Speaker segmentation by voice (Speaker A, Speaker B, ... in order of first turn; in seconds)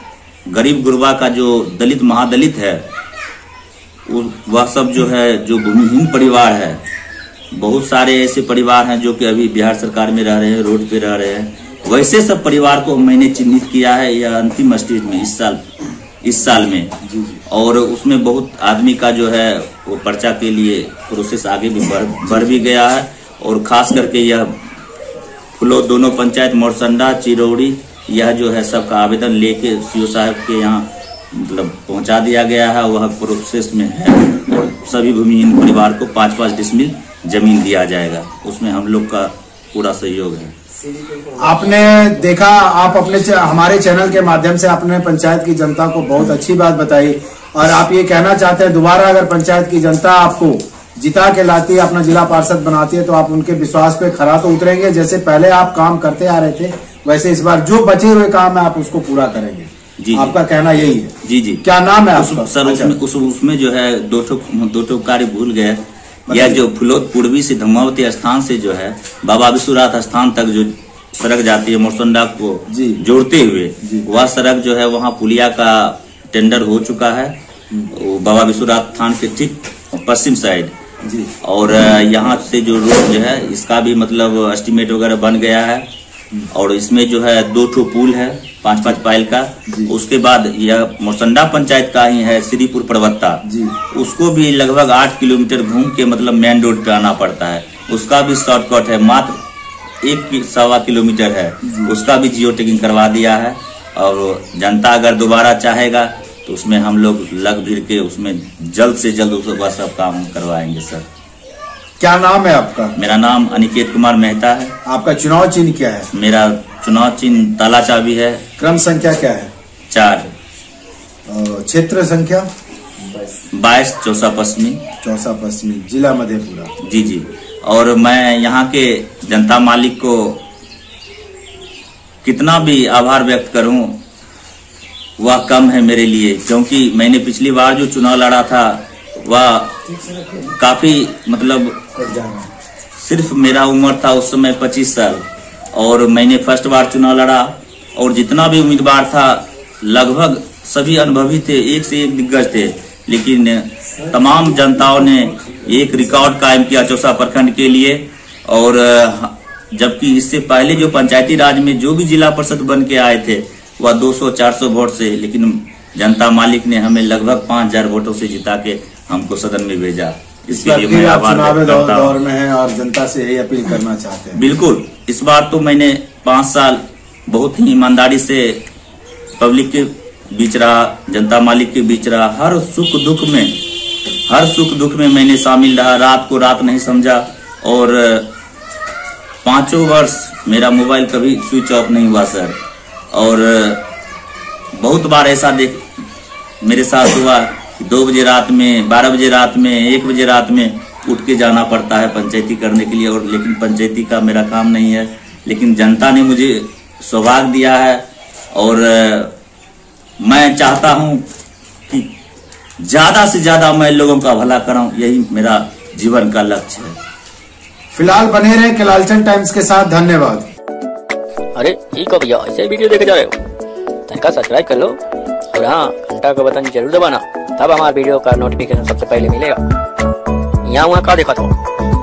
Speaker A: 0.5-2.9, 4.1-6.8, 7.5-15.6, 16.2-16.9, 17.5-24.5, 25.6-40.5, 60.0-60.4, 61.2-61.6, 62.1-77.3, 77.9-80.7, 81.4-85.9, 86.5-99.4, 100.0-111.0, 113.0-114.7, 116.1-118.4, 119.9-120.3, 123.5-124.8, 126.8-130.4, 132.2-134.0, 135.2-139.7, 140.6-141.8, 143.0-172.2, 174.3-178.6, 179.4-183.5, 184.3-188.3, 189.4-192.6, 193.1-193.8, 194.8-195.8, 196.6-208.0, 208.5-209.3, 210.2-211.2, 212.8-217.0
Speaker B: 17.0-17.4, 41.4-61.1, 61.6-63.0, 66.3-66.6, 72.7-73.0, 73.8-74.1, 81.0-81.3, 89.7-89.9, 93.5-93.7, 101.6-102.0, 112.0-112.9, 114.8-116.1, 118.6-119.5, 121.3-122.5, 125.0-126.7, 170.5-174.4, 217.9-220.5
Speaker C: 221.6-223.4, 224.1-225.0, 225.5-229.6, 230.7-231.6